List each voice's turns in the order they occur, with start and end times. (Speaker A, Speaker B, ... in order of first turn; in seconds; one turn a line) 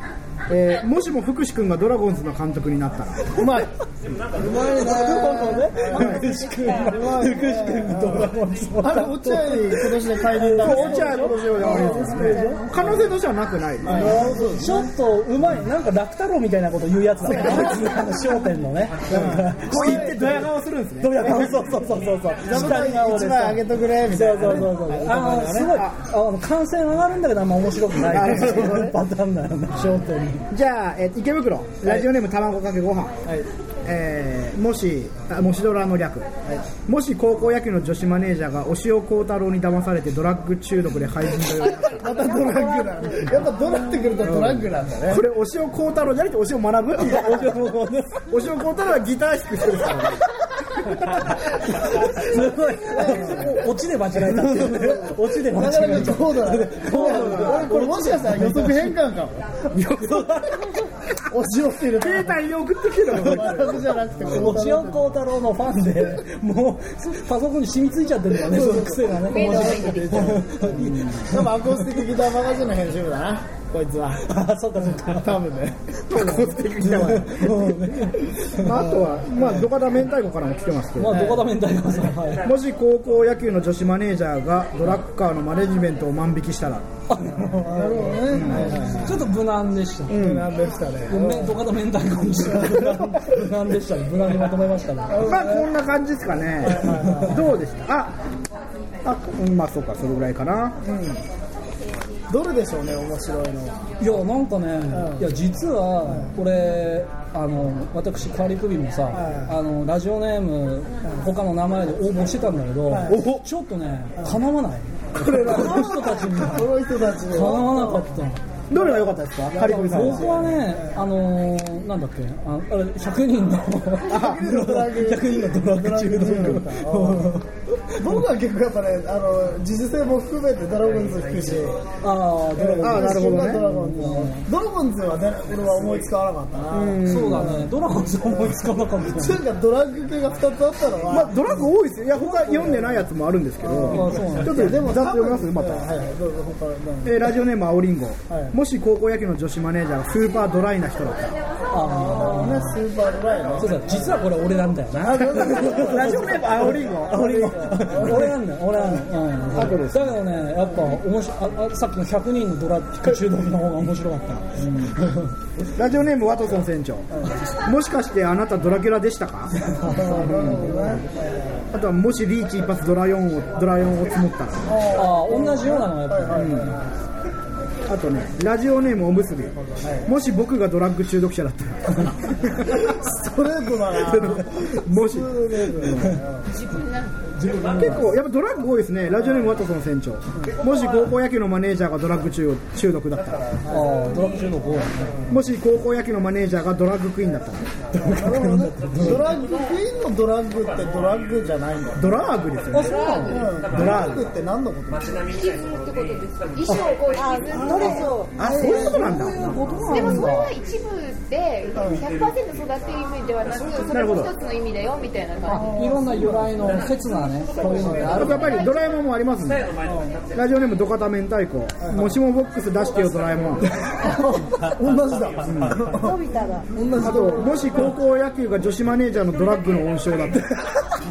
Speaker A: 0.5-3.3
Speaker B: 3.4-3.7
Speaker C: 4.3-12.9
Speaker B: 4.4-12.4
Speaker A: 5.9-6.3
Speaker D: 6.3-6.9
Speaker A: 10.6-14.3
Speaker E: 12.2-12.6
Speaker B: 13.8-14.9
Speaker C: 13.9-20.4
Speaker B: 17.3-17.9
Speaker A: 19.1-21.7
Speaker B: 19.1-20.3
Speaker C: 21.0-30.5
Speaker B: 22.4-25.8
Speaker A: 25.7-26.0
Speaker A: 28.0-29.0
Speaker A: 30.5-33.2
Speaker A: 33.9-36.3
Speaker A: 36.9-42.0
Speaker D: 41.6-42.4
Speaker B: 41.9-45.2
Speaker E: 42.2-43.4
Speaker A: 44.2-47.6
Speaker C: 47.0-48.4
Speaker A: 48.2-51.2
Speaker C: 50.8-59.0
Speaker B: 52.9-53.6
Speaker B: 54.2-59.6
Speaker A: 56.9-57.8
Speaker C: 59.7-60.8
Speaker B: 61.3-62.4
Speaker A: 62.0-64.0
Speaker B: 63.1-65.2
Speaker C: 64.2-71.8
Speaker B: 68.4-74.2
Speaker D: 69.2-70.4
Speaker C: 74.2-75.4
Speaker B: 75.0-75.9
Speaker A: 76.1-77.9
Speaker C: 76.1-79.1
Speaker A: 78.5-81.4
Speaker C: 81.0-82.5
Speaker B: 81.2-81.4
Speaker A: 82.4-86.9
Speaker C: 87.1-90.2
Speaker B: 87.7-89.3
Speaker A: 88.3-88.7
Speaker B: 90.1-91.6
Speaker A: 90.1-90.5
Speaker C: 91.1-95.3
Speaker B: 92.5-93.3
Speaker B: 95.1-95.7
Speaker A: 95.2-98.2
Speaker B: 96.7-97.4
Speaker C: 97.0-97.4
Speaker A: 99.0-100.8
Speaker B: 100.8-101.2
Speaker B: 102.3-103.9
Speaker C: 104.0-118.4
Speaker B: 104.9-105.2
Speaker B: 106.1-106.3
Speaker B: 109.1-109.5
Speaker B: 112.9-113.3
Speaker A: 113.0-113.5
Speaker A: 115.2-116.1
Speaker B: 115.3-118.1
Speaker A: 118.7-120.5
Speaker B: 118.7-120.8
Speaker C: 119.7-128.2
Speaker A: 124.1-124.4
Speaker B: 124.1-127.4
Speaker B: 128.0-131.8
Speaker C: 132.0-134.5
Speaker B: 132.6-137.4
Speaker A: 132.8-133.6
Speaker A: 136.7-137.6
Speaker C: 137.0-139.4
Speaker B: 139.1-141.6
Speaker A: 141.1-145.9
Speaker B: 142.2-143.1
Speaker B: 143.6-147.2
Speaker C: 143.9-144.8
Speaker A: 147.0-151.4
Speaker B: 148.3-148.6
Speaker C: 151.7-152.8
Speaker B: 151.8-154.1
Speaker C: 153.6-164.6
Speaker B: 155.1-158.4
Speaker A: 155.2-157.8
Speaker A: 159.5-160.2
Speaker A: 164.6-164.9
Speaker A: 165.8-167.1
Speaker A: 167.6-169.6
Speaker C: 169.8-170.9
Speaker B: 169.8-171.6
Speaker A: 170.1-170.8
Speaker A: 171.7-174.7
Speaker B: 174.7-176.8
Speaker C: 174.9-176.8
Speaker A: 176.3-176.8
Speaker A: 177.9-182.9
Speaker B: 182.7-186.5
Speaker A: 184.0-186.2
Speaker D: 186.5-187.3
Speaker B: 187.5-188.0
Speaker C: 187.5-188.0
Speaker A: 187.7-193.6
Speaker C: 193.7-195.3
Speaker A: 195.3-197.7
Speaker C: 197.9-199.3
Speaker B: 198.0-202.2
Speaker A: 202.0-203.0
Speaker C: 202.7-203.5
Speaker D: 202.7-203.6
Speaker B: 203.3-205.3
Speaker A: 203.6-204.3
Speaker D: 205.3-208.2
Speaker E: 207.2-209.0
Speaker B: 208.4-208.9
Speaker A: 208.4-209.5
Speaker C: 208.5-210.5
Speaker D: 209.9-215.8
Speaker B: 211.8-212.0
Speaker A: 213.9-214.3
Speaker C: 215.5-218.6
Speaker B: 215.8-216.5
Speaker B: 217.6-218.2
Speaker A: 218.1-219.7
Speaker D: 218.3-218.8
Speaker B: 219.9-220.1
Speaker A: 220.3-223.7
Speaker B: 224.0-226.2
Speaker A: 225.4-225.8
Speaker E: 225.9-226.7
Speaker B: 226.7-227.9
Speaker A: 227.0-230.6